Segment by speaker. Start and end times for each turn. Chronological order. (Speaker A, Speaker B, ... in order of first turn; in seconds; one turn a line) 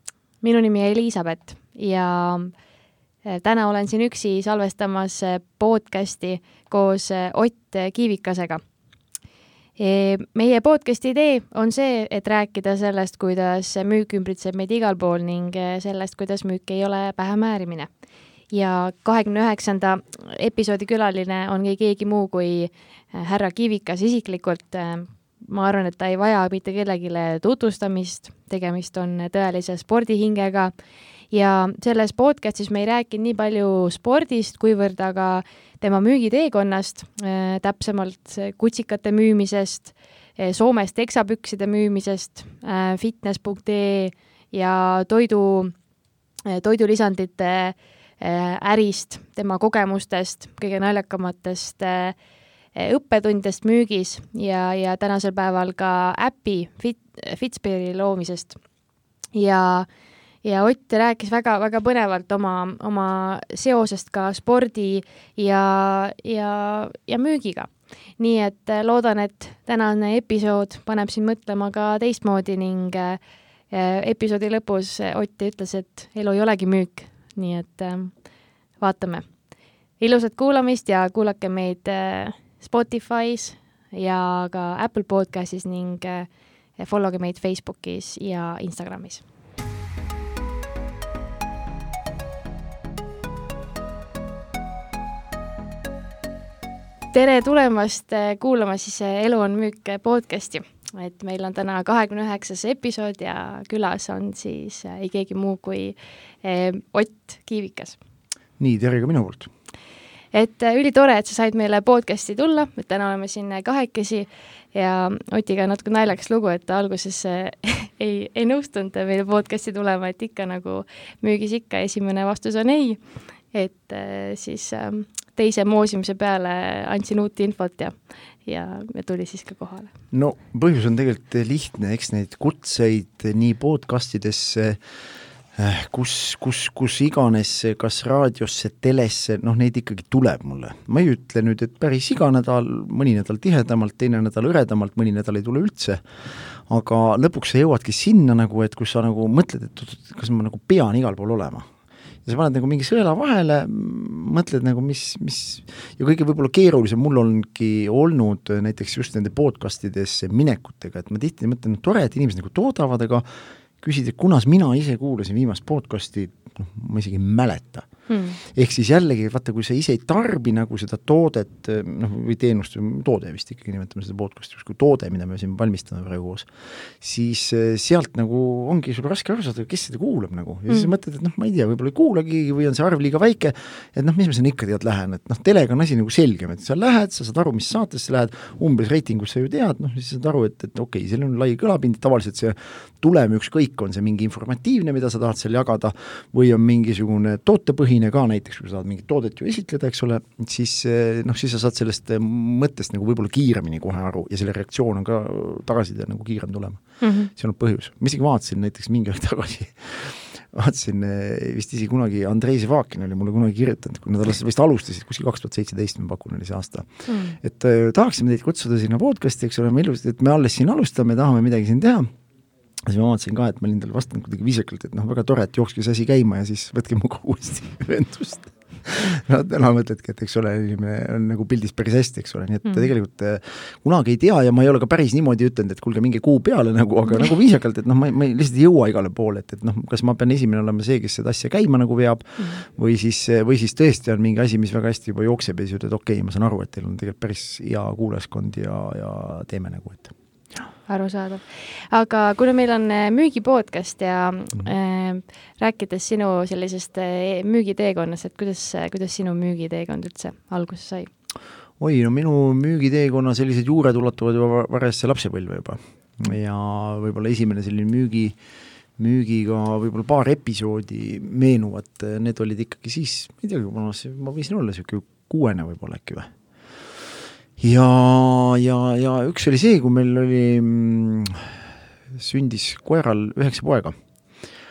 Speaker A: 0.4-2.5
Speaker A: 3.2-8.6
Speaker A: 9.8-17.9
Speaker A: 18.5-30.7
Speaker A: 31.3-45.7
Speaker A: 46.5-52.1
Speaker A: 52.7-58.6
Speaker A: 59.3-59.9
Speaker A: 60.4-73.2
Speaker A: 73.7-78.1
Speaker A: 78.8-79.3
Speaker A: 80.0-89.2
Speaker A: 97.1-108.0
Speaker B: 108.6-109.5
Speaker A: 110.3-129.9
Speaker B: 130.1-134.8
Speaker B: 135.6-146.0
Speaker B: 146.7-151.7
Speaker B: 152.2-163.2
Speaker B: 163.8-167.9
Speaker A: 168.1-168.4
Speaker B: 168.5-176.5
Speaker B: 177.0-206.8
Speaker A: 207.0-207.3
Speaker B: 207.3-216.9
Speaker A: 217.1-217.4
Speaker B: 217.4-222.1
Speaker B: 222.8-250.1
Speaker A: 250.9-261.1
Speaker B: 261.8-268.3
Speaker B: 269.0-276.3
Speaker B: 277.6-281.6
Speaker B: 282.1-283.9